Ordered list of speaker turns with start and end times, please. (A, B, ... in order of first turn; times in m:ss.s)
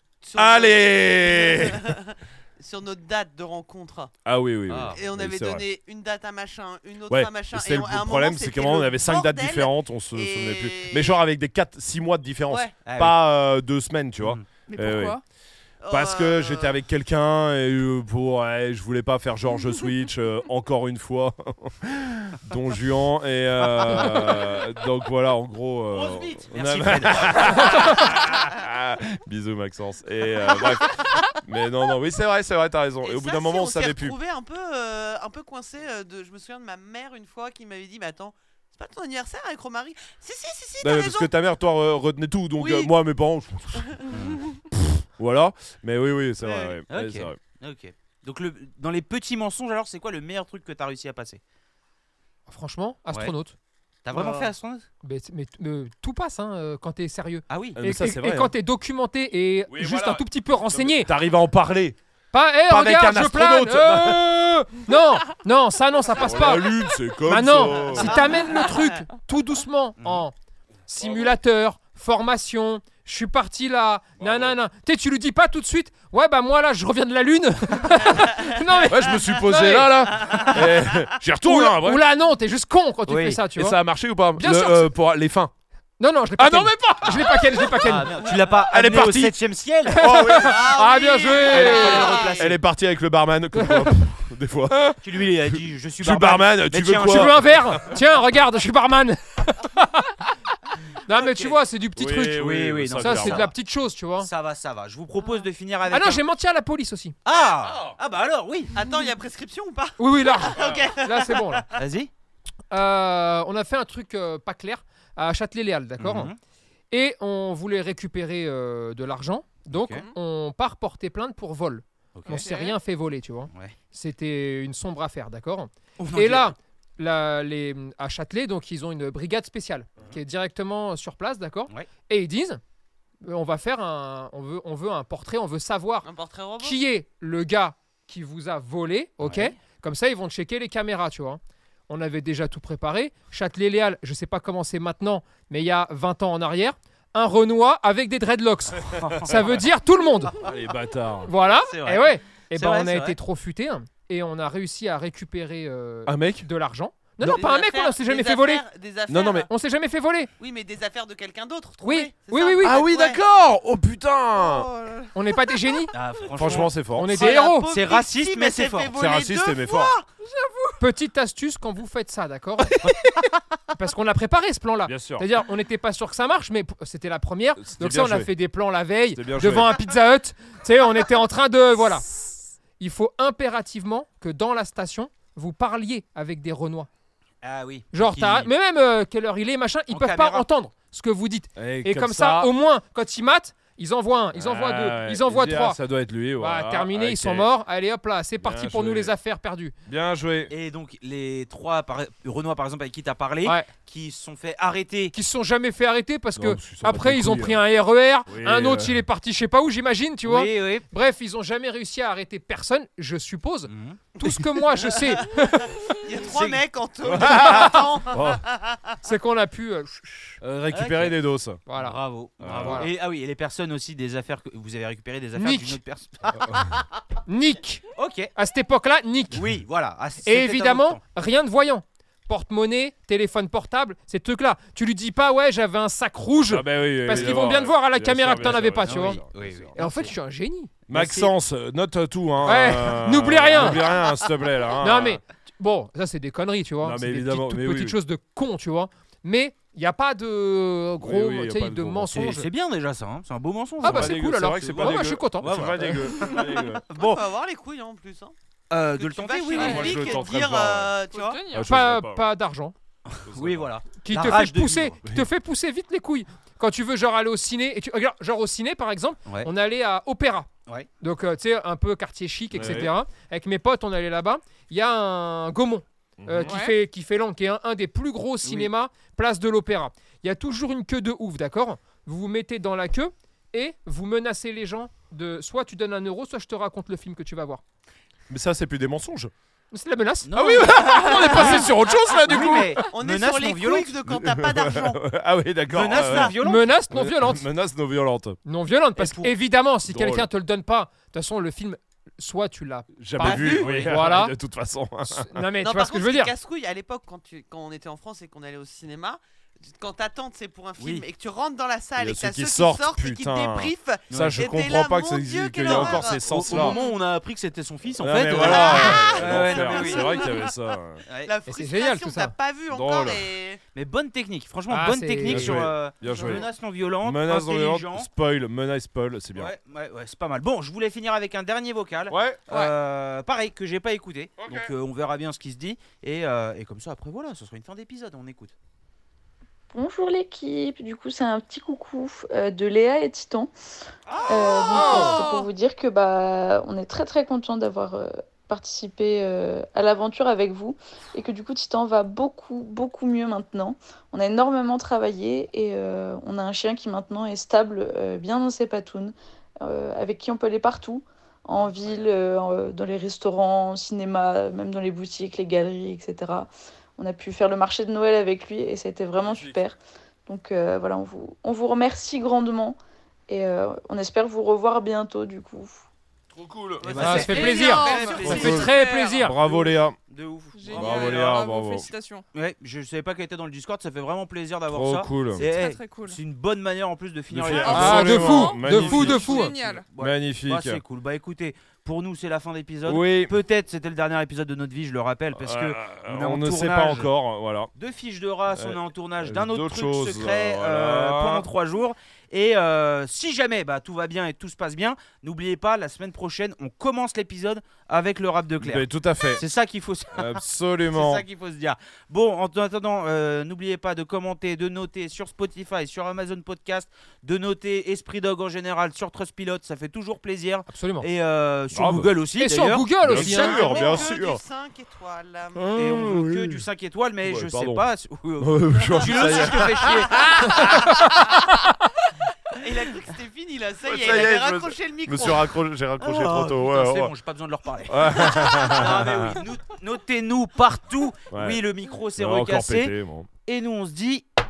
0:00.2-0:04.1 A
0:00.3-0:01.9 B
0:04.2-0:05.6 B
0:04.7-0:05.0 C
0:04.9-0:11.2 A
0:07.1-0:15.2 B
0:12.8-0:13.2 C
0:14.2-0:14.4 C
0:14.7-0:15.2 D
0:15.8-0:16.8 A
0:15.9-0:34.2 B
0:25.9-0:28.2 C
0:33.0-0:41.3 A
0:40.8-0:44.0 B
0:42.6-0:42.9 A
0:43.7-0:44.6 A
0:44.1-0:44.4 C
0:44.7-0:47.4 B
0:46.4-0:46.8 A
0:46.9-0:51.4 C
0:52.5-0:53.5 E
0:54.0-0:54.9 C
0:54.1-0:54.4 A
0:55.0-1:01.1 E
0:57.5-0:57.8 C
0:57.8-0:58.5 B
0:59.7-1:02.0 B
1:02.3-1:10.3 E
1:02.7-1:04.3 B
1:06.2-1:08.2 B
1:10.0-1:10.2 C
1:10.9-1:20.3 E
1:11.0-1:11.3 B
1:14.2-1:14.6 B
1:18.9-1:22.0 B
1:20.3-1:20.6 A
1:21.4-1:23.8 E
1:23.1-1:23.4 C
1:23.5-1:25.5 B
1:24.4-1:24.9 E
1:26.0-1:28.2 E
1:26.4-1:27.9 B
1:27.8-1:30.0 C
1:28.6-1:29.4 B
1:29.9-1:32.3 E
1:30.0-1:30.8 B
1:30.3-1:32.6 A
1:31.5-1:37.8 B
1:31.5-1:32.5 C
1:33.5-1:34.0 E
1:35.0-1:37.4 C
1:37.1-1:40.2 E
1:41.0-1:44.3 E
1:41.2-1:41.6 C
1:42.0-1:43.5 B
1:42.4-1:43.5 C
1:44.2-1:46.2 C
1:45.9-1:47.1 E
1:47.2-1:48.7 C
1:48.7-1:51.7 A
1:50.0-1:51.6 E
1:50.6-1:50.8 B
1:51.8-1:52.1 C
1:52.7-1:56.3 E
1:56.0-1:56.4 C
1:56.9-2:12.6 E
1:59.7-2:00.0 C
2:02.1-2:02.5 C
2:02.3-2:02.8 D
2:06.0-2:06.5 C
2:13.2-2:16.1 E
2:16.0-2:16.8 A
2:16.6-2:30.3 E
2:19.2-2:19.6 C
2:28.8-2:29.6 C
2:29.0-2:29.5 B
2:30.4-2:31.3 B
2:31.2-2:38.6 E
2:31.5-2:33.2 C
2:36.0-2:36.5 B
2:37.2-2:39.5 A
2:39.1-2:39.5 B
2:39.5-2:40.3 E
2:40.4-2:43.2 A
2:41.8-2:42.8 E
2:42.6-2:44.7 B
2:44.4-2:45.1 A
2:45.1-2:45.9 E
2:45.9-2:48.9 C
2:46.3-2:47.2 B
2:46.9-2:47.7 E
2:47.1-2:50.1 A
2:49.0-2:49.9 B
2:50.2-2:50.8 D
2:50.8-2:52.9 E
2:53.7-3:06.9 E
2:54.8-2:55.3 B
2:57.6-2:58.3 B
2:59.1-2:59.8 B
3:07.4-3:08.5 C
3:07.9-3:15.8 E
3:09.9-3:10.4 C
3:11.6-3:12.5 B
3:14.3-3:17.5 B
3:16.4-3:19.7 E
3:18.4-3:19.1 B
3:19.8-3:20.5 B
3:20.5-3:25.1 C
3:25.1-3:35.7 E
3:26.4-3:27.6 B
3:28.3-3:29.0 B
3:30.2-3:30.8 C
3:33.7-3:34.0 C
3:34.2-3:39.0 A
3:36.2-3:36.6 C
3:37.0-3:38.4 B
3:37.3-3:37.8 E
3:39.0-3:40.4 E
3:40.4-3:41.6 B
3:40.7-3:41.2 C
3:41.7-3:42.0 E
3:41.7-3:46.2 C
3:42.4-3:42.9 B
3:42.5-3:42.9 E
3:45.4-3:45.8 E
3:46.4-3:46.7 B
3:47.3-3:47.8 E
3:48.0-3:48.3 C
3:48.3-3:49.4 E
3:49.3-3:51.0 C
3:50.2-3:59.2 E
3:56.5-3:59.9 B
3:58.8-4:00.1 C
3:59.8-4:01.2 E
4:00.9-4:01.2 C
4:00.9-4:05.2 B
4:02.4-4:03.9 E
4:04.8-4:12.5 E
4:06.8-4:08.0 B
4:11.0-4:12.3 B
4:12.1-4:16.1 C
4:13.8-4:16.0 E
4:13.8-4:16.8 B
4:16.2-4:18.3 A
4:16.9-4:17.2 C
4:18.7-4:20.2 C
4:18.9-4:21.4 A
4:19.6-4:21.0 B
4:19.6-4:19.8 D
4:21.1-4:21.7 D
4:21.5-4:22.3 B
4:21.6-4:22.7 E
4:23.1-4:24.9 C
4:23.2-4:23.7 B
4:24.0-4:30.5 E
4:31.0-4:47.6 E
4:32.5-4:32.9 B
4:36.2-4:36.5 B
4:36.5-4:36.8 D
4:38.4-4:38.7 C
4:48.3-4:49.3 B
4:49.7-4:50.3 E
4:50.2-4:51.7 C
4:50.3-4:52.8 B
4:51.0-4:52.2 E
4:51.3-4:51.6 A
4:52.2-4:53.9 C
4:52.9-4:55.0 A
4:54.1-4:56.4 B
4:55.7-4:56.7 C
4:56.3-4:57.4 E
4:56.9-4:58.4 B
4:58.4-5:04.3 E
4:59.0-4:59.3 C
4:59.8-5:00.3 B
5:03.0-5:05.4 B
5:03.2-5:03.7 A
5:03.3-5:03.9 C
5:05.1-5:06.3 E
5:05.6-5:16.9 A
5:10.8-5:11.0 C
5:12.0-5:16.8 B
5:14.1-5:14.4 C
5:15.6-5:20.2 C
5:18.0-5:21.0 B
5:18.4-5:20.6 A
5:21.1-5:21.3 C
5:21.2-5:23.6 A
5:21.4-5:22.3 E
5:22.7-5:23.3 B
5:23.7-5:28.1 C
5:24.7-5:25.6 E
5:25.2-5:26.5 B
5:26.1-5:26.4 A
5:27.0-5:29.5 B
5:29.3-5:38.5 C
5:32.1-5:32.4 B
5:34.4-5:34.7 B
5:39.7-5:43.5 F
5:44.2-5:45.5 D
5:44.3-6:12.8 F
5:44.7-5:45.2 E
6:01.6-6:02.0 B
6:09.2-6:09.6 B
6:13.3-6:15.9 F
6:16.3-6:17.3 B
6:16.8-6:18.7 C
6:17.0-6:19.3 E
6:17.2-6:19.3 D
6:18.2-6:20.0 B
6:19.4-6:21.3 C
6:20.5-6:22.2 D
6:20.7-6:21.9 B
6:22.3-6:28.2 C
6:24.7-6:25.4 B
6:25.5-6:26.2 D
6:27.3-6:30.8 B
6:27.6-6:29.8 D
6:27.7-6:29.5 E
6:28.8-6:37.1 C
6:32.8-6:33.3 B
6:35.3-6:37.7 B
6:37.8-7:03.1 C
6:38.5-6:41.5 B
6:48.6-6:49.4 B
6:50.1-6:51.2 B
7:00.7-7:01.1 E
7:01.7-7:02.1 B
7:02.4-7:03.9 E
7:03.0-7:04.4 B
7:03.2-7:05.7 A
7:05.5-7:06.6 B
7:05.8-7:10.5 C
7:07.2-7:07.8 B
7:08.4-7:11.6 B
7:09.0-7:10.4 A
7:12.6-7:15.5 A
7:13.8-7:17.1 B
7:16.0-7:22.9 C
7:17.9-7:19.4 B
7:21.3-7:21.6 B
7:22.2-7:23.3 B
7:23.4-7:24.2 C